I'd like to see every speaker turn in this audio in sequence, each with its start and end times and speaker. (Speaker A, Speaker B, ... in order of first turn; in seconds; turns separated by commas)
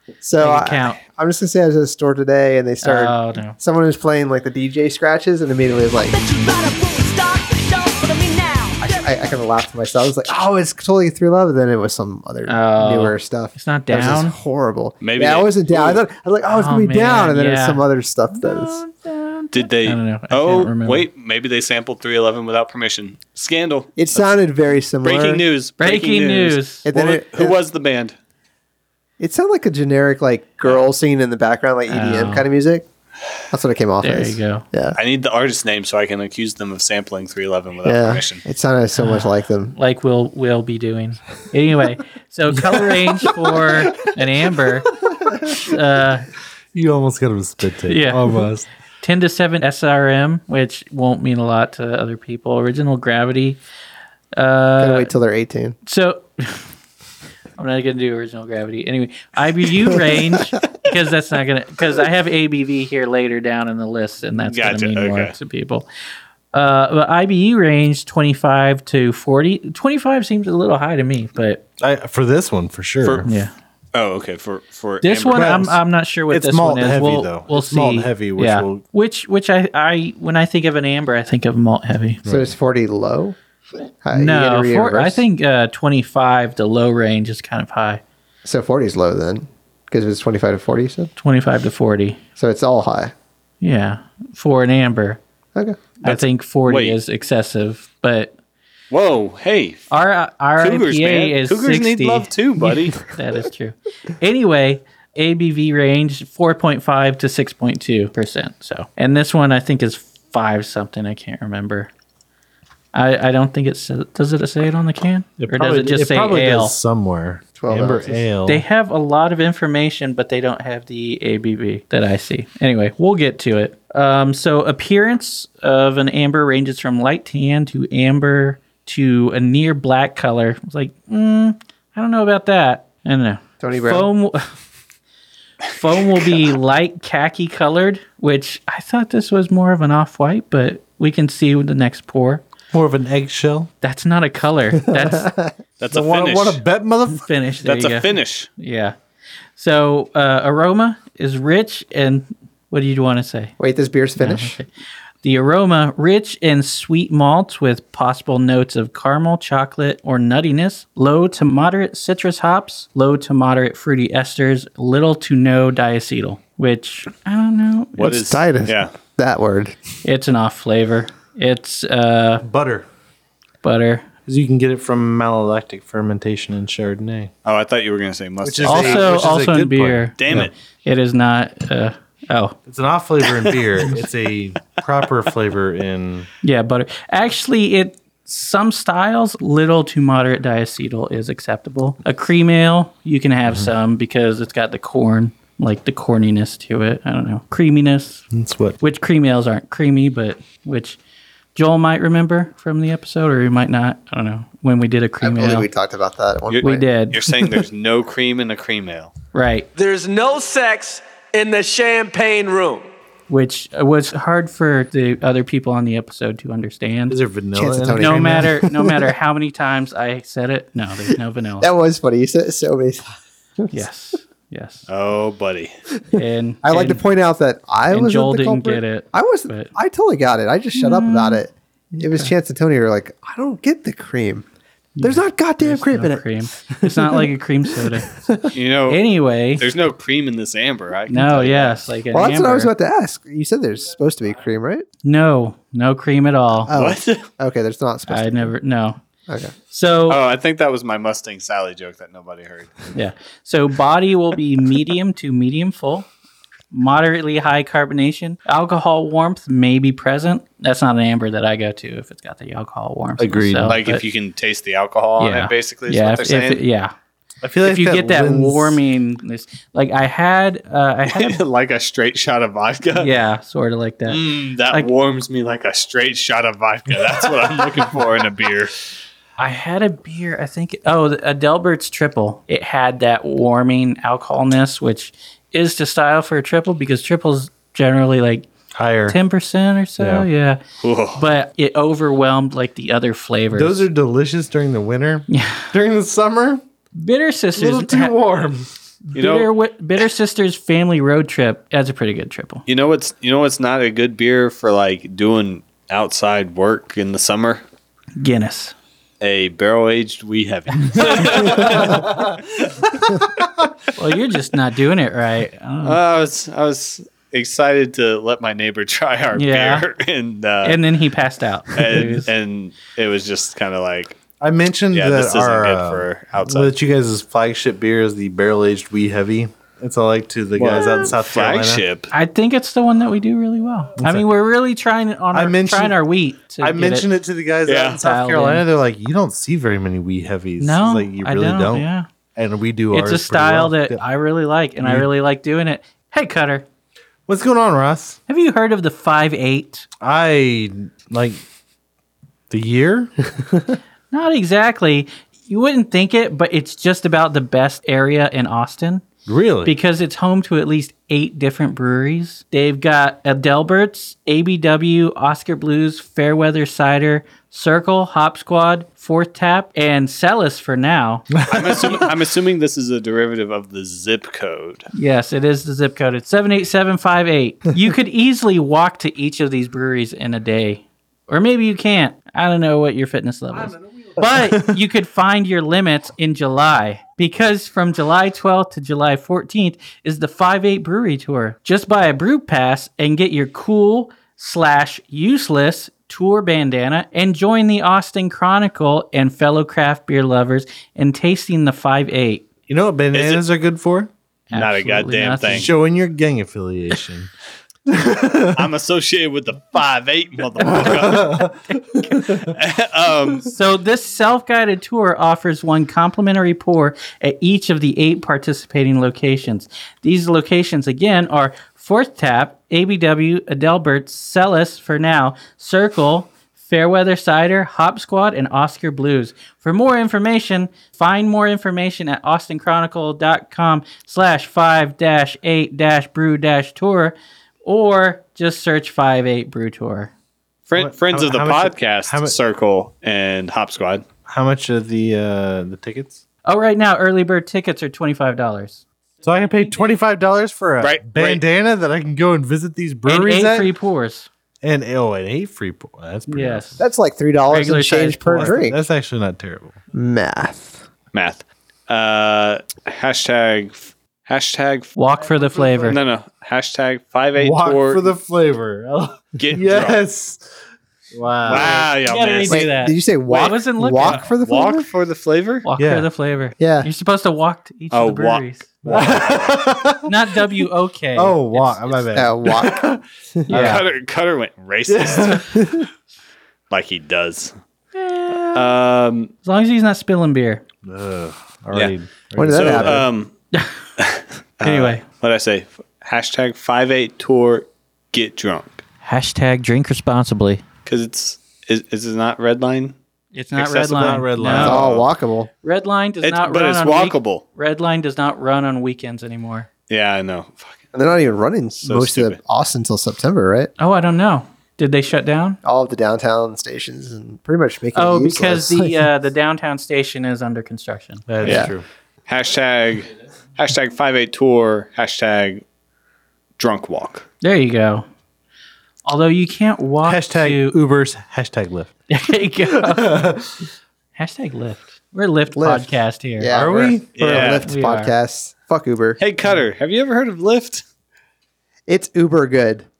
Speaker A: 0.2-6.2, Speaker B: 0.4-1.0, Speaker B: 2.8-3.5, Speaker C: 6.4-8.8, Speaker A: 8.8-18.8, Speaker B: 12.4-14.3, Speaker D: 15.0-16.0, Speaker B: 16.5-21.1, Speaker D: 19.5-24.4, Speaker A: 23.9-25.4, Speaker D: 25.0-28.1, Speaker B: 25.8-26.9, Speaker A: 26.8-27.6, Speaker A: 29.2-32.8, Speaker B: 31.9-32.5, Speaker A: 33.5-35.0, Speaker B: 34.0-34.6, Speaker D: 35.0-38.4, Speaker A: 37.8-39.7, Speaker B: 39.0-44.9, Speaker B: 45.5-46.3, Speaker E: 46.7-48.7, Speaker B: 47.9-48.4, Speaker B: 49.0-53.6, Speaker B: 54.4-55.1, Speaker A: 54.8-55.8, Speaker B: 55.9-56.7, Speaker B: 57.6-65.9, Speaker D: 64.5-65.3, Speaker B: 66.5-71.6, Speaker E: 71.8-73.3, Speaker D: 73.0-73.3, Speaker B: 73.2-73.5, Speaker D: 73.9-75.6, Speaker B: 75.0-82.2, Speaker E: 75.3-78.8, Speaker E: 82.2-82.5, Speaker A: 82.3-83.3, Speaker A: 84.0-85.2, Speaker B: 84.1-88.0, Speaker A: 88.4-91.1, Speaker B: 91.2-92.2, Speaker A: 92.4-93.1, Speaker B: 93.6-95.2, Speaker B: 96.0-98.3, Speaker D: 96.0-97.0, Speaker D: 98.9-99.9, Speaker B: 99.9-111.9, Speaker D: 100.6-103.0, Speaker B: 112.9-116.7, Speaker E: 115.4-118.6, Speaker A: 117.6-118.2, Speaker B: 118.5-134.5, Speaker A: 133.6-134.1, Speaker B: 135.7-142.4, Speaker E: 142.7-143.7, Speaker B: 143.8-145.3, Speaker A: 144.9-145.5, Speaker D: 145.8-146.6, Speaker E: 145.9-147.2, Speaker B: 147.1-148.9, Speaker D: 147.6-148.5, Speaker B: 149.6-153.5, Speaker A: 153.6-154.6, Speaker B: 154.2-154.7, Speaker B: 155.2-168.1, Speaker D: 168.0-168.9, Speaker A: 168.0-169.8, Speaker B: 170.0-172.4, Speaker E: 172.4-172.8, Speaker B: 173.6-174.1, Speaker E: 174.3-177.3, Speaker D: 177.4-179.3, Speaker E: 178.4-180.5, Speaker B: 178.7-182.6, Speaker D: 180.2-180.5, Speaker E: 182.7-186.3, Speaker B: 186.4-198.2, Speaker E: 198.3-198.8, Speaker B: 198.8-201.0, Speaker B: 201.5-205.7, Speaker A: 205.2-206.9, Speaker D: 206.5-209.1, Speaker B: 206.6-207.2, Speaker B: 209.3-209.7, Speaker C: 209.8-212.8, Speaker B: 213.3-217.2, Speaker E: 217.1-218.6, Speaker A: 217.5-219.1, Speaker B: 217.9-221.7, Speaker A: 221.6-223.1, Speaker B: 223.7-224.8, Speaker D: 224.9-225.7, Speaker B: 226.1-227.0, Speaker A: 226.1-234.4, Speaker B: 227.9-229.7, Speaker B: 230.7-231.4, Speaker B: 231.9-232.3, Speaker B: 235.0-238.1, Speaker A: 235.0-238.5, Speaker D: 238.5-239.0, Speaker B: 238.9-239.6, Speaker D: 239.6-241.8, Speaker B: 241.1-242.7, Speaker A: 242.1-244.8, Speaker B: 245.0-246.7, Speaker A: 246.7-248.5, Speaker D: 246.7-247.2, Speaker B: 248.1-249.0, Speaker A: 249.3-249.5, Speaker B: 249.7-250.2, Speaker D: 250.1-252.9, Speaker B: 252.9-256.1, Speaker B: 256.7-264.0, Speaker E: 263.2-263.8, Speaker D: 263.6-266.6, Speaker B: 265.2-266.9, Speaker E: 267.4-268.8, Speaker B: 267.6-271.4, Speaker D: 271.1-273.1, Speaker B: 272.9-274.9, Speaker D: 274.1-278.8, Speaker B: 279.4-288.5, Speaker E: 288.7-289.2, Speaker B: 289.1-290.6, Speaker E: 290.0-290.3, Speaker D: 290.8-291.3, Speaker B: 291.1-293.9, Speaker E: 293.5-296.6, Speaker B: 295.3-295.6, Speaker B: 297.0-298.1, Speaker E: 297.5-298.7, Speaker B: 299.1-302.6, Speaker D: 299.1-299.5, Speaker D: 302.7-307.6, Speaker B: 308.2-308.7, Speaker D: 309.2-313.5, Speaker B: 311.1-311.7, Speaker B: 313.9-316.0, Speaker D: 315.8-320.8, Speaker B: 319.4-319.9, Speaker B: 320.6-322.3, Speaker D: 321.7-324.2, Speaker E: 324.4-331.8, Speaker D: 324.9-326.7, Speaker D: 330.6-332.1, Speaker B: 332.1-337.1, Speaker E: 334.0-334.2, Speaker E: 335.3-336.0, Speaker E: 336.6-344.0, Speaker D: 337.6-338.0, Speaker B: 338.0-338.6, Speaker B: 340.6-342.1, Speaker B: 342.9-346.6, Speaker E: 344.8-345.1, Speaker E: 347.3-348.2, Speaker B: 348.3-349.9, Speaker E: 350.0-351.4, Speaker E: 352.5-353.1, Speaker B: 354.1-359.0, Speaker E: 359.3-359.7, Speaker B: 359.6-371.3, Speaker D: 371.4-374.9, Speaker B: 374.9-402.4, Speaker E: 383.5-384.8, Speaker E: 402.7-404.1, Speaker D: 403.1-403.4, Speaker B: 404.5-405.7, Speaker D: 404.5-405.7, Speaker E: 405.5-407.3, Speaker E: 407.9-408.6, Speaker D: 408.5-411.4, Speaker E: 410.6-411.6, Speaker D: 412.3-413.5, Speaker B: 413.4-440.1, Speaker D: 440.7-444.0, Speaker E: 440.8-442.4, Speaker E: 444.3-446.2, Speaker B: 446.4-448.8, Speaker E: 449.2-453.7, Speaker D: 450.8-451.4, Speaker B: 453.1-454.3, Speaker E: 454.6-456.8, Speaker B: 456.3-456.8, Speaker A: 456.8-458.8, Speaker B: 457.5-458.6, Speaker E: 458.4-459.8, Speaker A: 459.9-460.8, Speaker D: 461.1-464.9, Speaker B: 465.0-466.0, Speaker E: 465.2-466.0, Speaker D: 465.9-468.1, Speaker E: 467.4-470.4, Speaker D: 469.4-470.0, Speaker E: 471.1-471.9, Speaker D: 471.4-472.6, Speaker B: 472.0-474.2, Speaker A: 472.5-474.9, Speaker D: 474.0-475.6, Speaker B: 475.6-479.1, Speaker E: 475.8-476.1, Speaker A: 476.6-476.9, Speaker D: 477.9-479.6, Speaker E: 478.9-483.9, Speaker B: 480.0-482.1, Speaker A: 482.1-482.9, Speaker B: 483.5-483.8, Speaker D: 483.5-485.4, Speaker E: 484.9-485.7, Speaker A: 485.5-485.9, Speaker D: 486.7-487.5, Speaker B: 487.9-488.7, Speaker D: 488.5-489.3, Speaker B: 489.4-490.6, Speaker E: 490.8-493.1, Speaker A: 492.4-493.1, Speaker D: 492.5-493.3, Speaker D: 494.0-498.8, Speaker B: 494.6-495.0, Speaker B: 499.0-500.6, Speaker D: 500.9-502.9, Speaker B: 503.3-504.8, Speaker D: 503.5-505.1, Speaker E: 503.9-504.9, Speaker A: 504.5-505.5, Speaker B: 505.6-509.7, Speaker D: 506.2-507.4, Speaker D: 509.9-510.8, Speaker A: 510.9-513.7, Speaker D: 511.8-512.4, Speaker B: 513.8-515.6, Speaker A: 515.6-519.0, Speaker B: 517.9-521.2, Speaker E: 521.3-521.9, Speaker A: 521.4-521.7, Speaker D: 522.3-525.6, Speaker D: 526.6-527.3, Speaker B: 527.4-528.0, Speaker B: 529.0-530.8, Speaker E: 530.0-531.9, Speaker B: 532.1-533.4, Speaker E: 532.6-533.5, Speaker B: 534.1-536.7, Speaker A: 535.5-539.2, Speaker E: 536.5-537.0, Speaker D: 537.1-537.6, Speaker B: 537.6-538.1, Speaker D: 539.2-540.8, Speaker A: 541.9-542.9